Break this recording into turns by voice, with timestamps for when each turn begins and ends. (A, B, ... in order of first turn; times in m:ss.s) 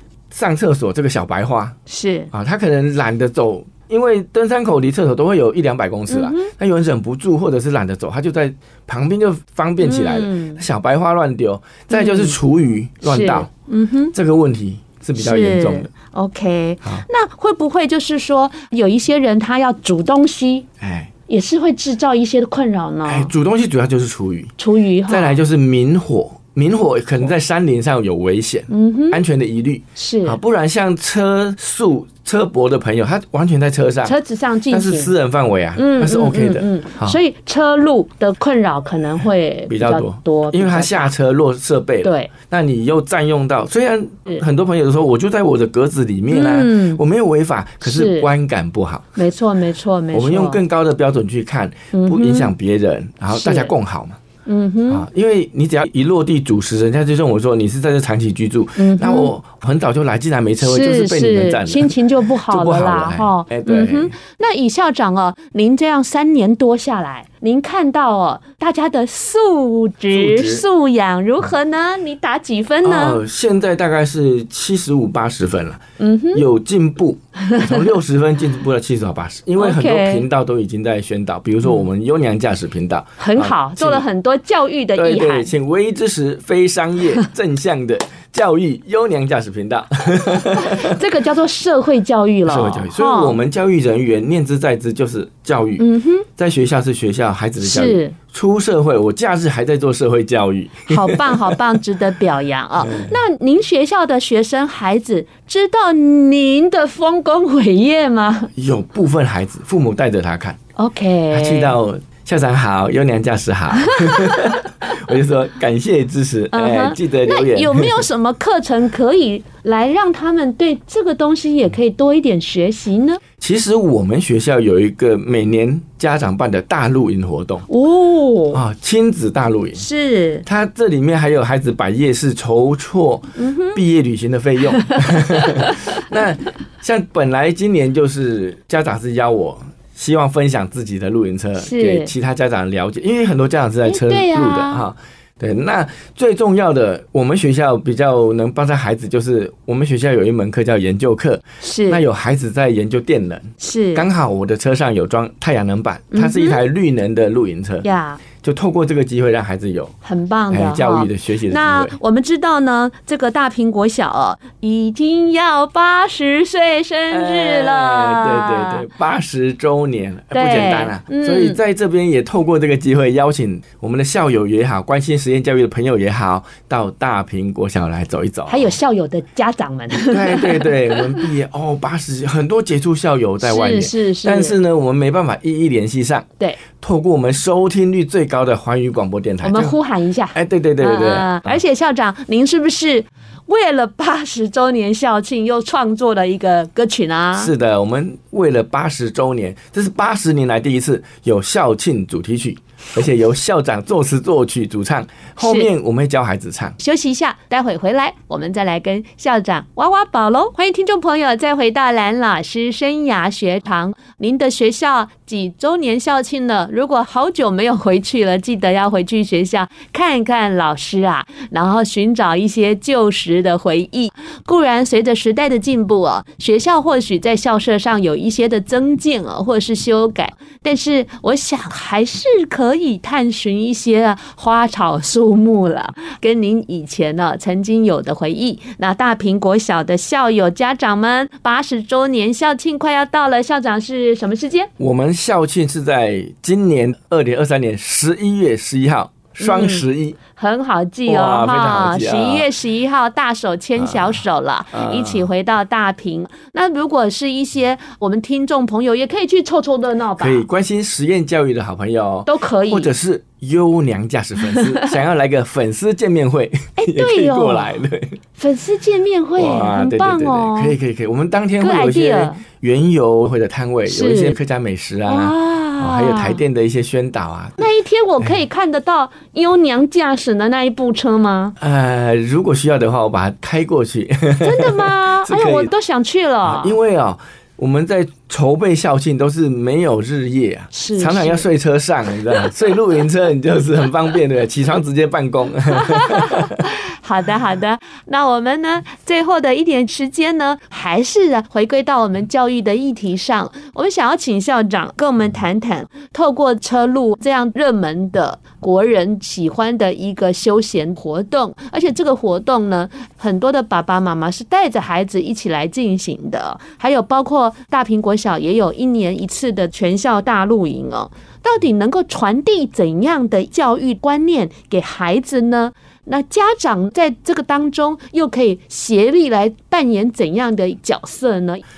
0:00.3-0:01.8 A
0:01.9-0:02.3 B
0:02.3-0:13.5 A
0:06.1-0:06.5 B
0:09.8-0:10.6 B
0:11.9-0:12.4 B
0:13.0-0:14.1 B
0:14.1-0:15.9 A
0:15.2-0:20.7 B
0:20.8-0:21.1 A
0:21.3-0:23.3 B
0:23.0-0:24.5 A
0:24.6-0:25.4 B
0:25.1-0:34.2 A
0:28.7-0:29.2 B
0:30.0-0:30.4 B
0:34.0-0:35.1 B
0:34.7-0:37.2 A
0:35.8-0:41.1 B
0:39.7-0:49.1 A
0:42.0-0:42.3 B
0:46.3-0:47.0 B
0:47.8-0:48.3 B
0:49.2-0:50.6 B
0:50.1-0:54.2 A
0:51.9-0:52.5 B
0:53.3-0:53.7 B
0:54.4-0:55.0 B
0:54.9-1:02.0 A
0:58.8-0:59.3 B
1:00.6-1:13.2 B
1:02.5-1:04.1 A
1:10.1-1:10.6 A
1:12.8-1:15.8 A
1:16.0-1:16.4 B
1:16.3-1:24.0 A
1:19.6-1:20.2 B
1:23.2-1:25.5 B
1:24.9-1:31.0 A
1:30.5-1:33.4 B
1:32.5-1:41.6 A
1:35.8-1:36.2 B
1:37.6-1:38.2 B
1:40.9-1:48.5 B
1:42.8-1:43.2 A
1:48.5-1:50.6 A
1:50.8-1:51.8 B
1:51.3-1:58.0 A
1:53.8-1:54.6 B
1:56.5-2:03.2 B
2:03.4-2:07.7 A
2:07.7-2:08.6 B
2:08.5-2:09.8 A
2:09.8-2:10.4 B
2:10.4-2:37.9 A
2:13.4-2:13.8 B
2:14.8-2:15.8 B
2:21.6-2:22.1 B
2:23.8-2:24.8 B
2:31.6-2:32.0 B
2:33.6-2:34.0 B
2:36.1-2:36.6 B
2:37.8-2:38.2 B
2:38.4-2:39.9 A
2:40.0-2:48.8 B
2:40.5-2:42.0 A
2:47.1-2:58.7 A
2:50.3-2:51.6 B
2:58.5-3:01.3 B
3:00.1-3:09.8 A
3:03.4-3:04.6 B
3:09.4-3:17.5 B
3:10.3-3:11.5 A
3:17.4-3:26.8 A
3:25.4-3:25.7 B
3:26.8-4:04.7 B
4:04.8-4:10.2 A
4:09.4-4:20.4 B
4:11.1-4:12.5 A
4:13.8-4:14.2 A
4:14.7-4:15.3 A
4:20.2-4:28.2 A
4:22.2-4:22.9 B
4:24.4-4:25.0 B
4:26.8-4:27.7 B
4:28.4-4:30.7 B
4:29.4-4:37.6 A
4:31.6-4:32.4 B
4:33.9-4:34.4 B
4:35.1-4:36.4 B
4:37.6-4:41.5 B
4:41.6-4:45.7 A
4:44.4-4:46.8 B
4:46.4-4:56.6 A
4:50.7-4:51.4 B
4:55.7-5:31.6 B